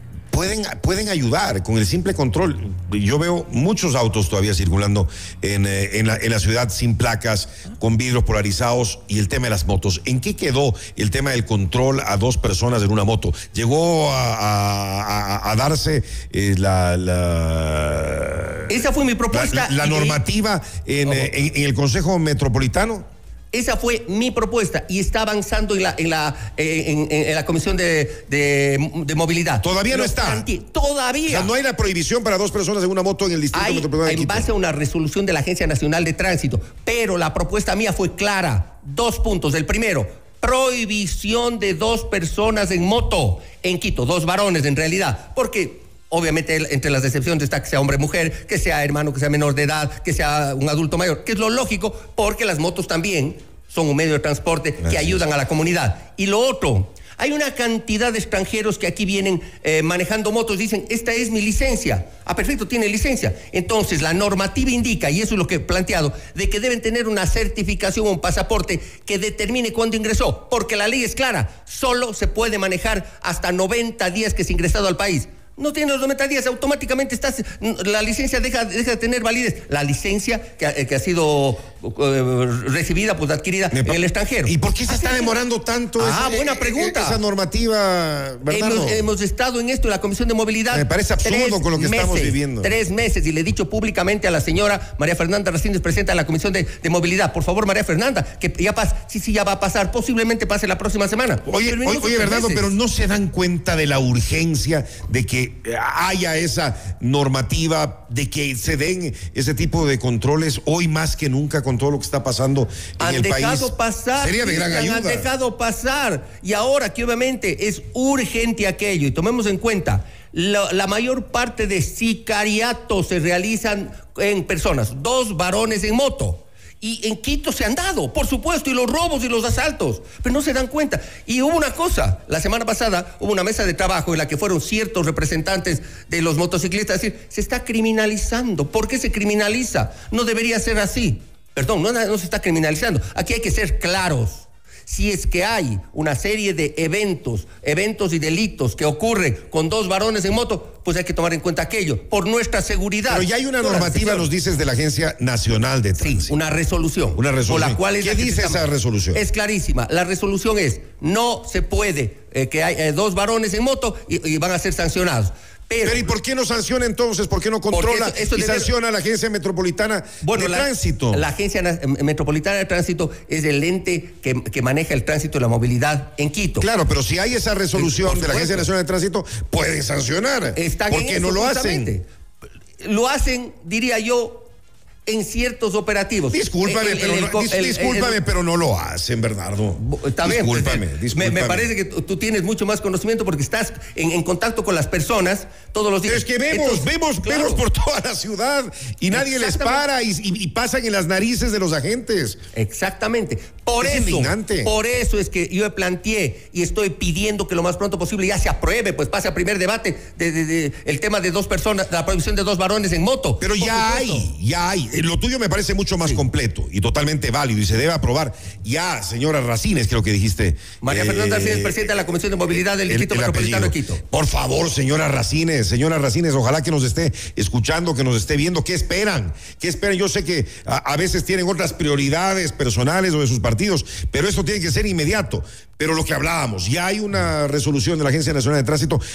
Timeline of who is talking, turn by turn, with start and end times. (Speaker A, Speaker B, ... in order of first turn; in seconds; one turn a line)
Speaker A: 0.3-18.7
Speaker B: 18.7-20.2
Speaker A: 19.3-23.1
Speaker B: 21.0-21.3
Speaker B: 23.5-31.5
Speaker A: 29.6-30.4
Speaker A: 31.3-34.5
Speaker B: 33.5-85.3
Speaker A: 54.8-55.2
Speaker A: 83.7-89.0
Speaker B: 86.0-87.2
Speaker B: 88.5-102.7
Speaker A: 90.7-92.7
Speaker A: 101.5-115.3
Speaker B: 113.0-154.3
Speaker A: 153.1-156.4
Speaker B: 156.0-166.1
Speaker A: 157.2-159.2
Speaker A: 165.8-171.2
Speaker B: 167.7-168.7
Speaker B: 170.2-176.7
Speaker A: 176.6-181.9
Speaker B: 177.7-178.7
Speaker B: 180.5-182.1
Speaker B: 182.8-184.5
Speaker B: 185.1-188.2
Speaker A: 186.3-191.7
Speaker B: 189.8-197.6
Speaker A: 196.1-202.4
Speaker B: 199.1-199.8
Speaker B: 202.5-214.3
Speaker A: 203.8-204.7
Speaker A: 213.4-221.8
Speaker B: 220.8-224.0
Speaker A: 222.9-239.0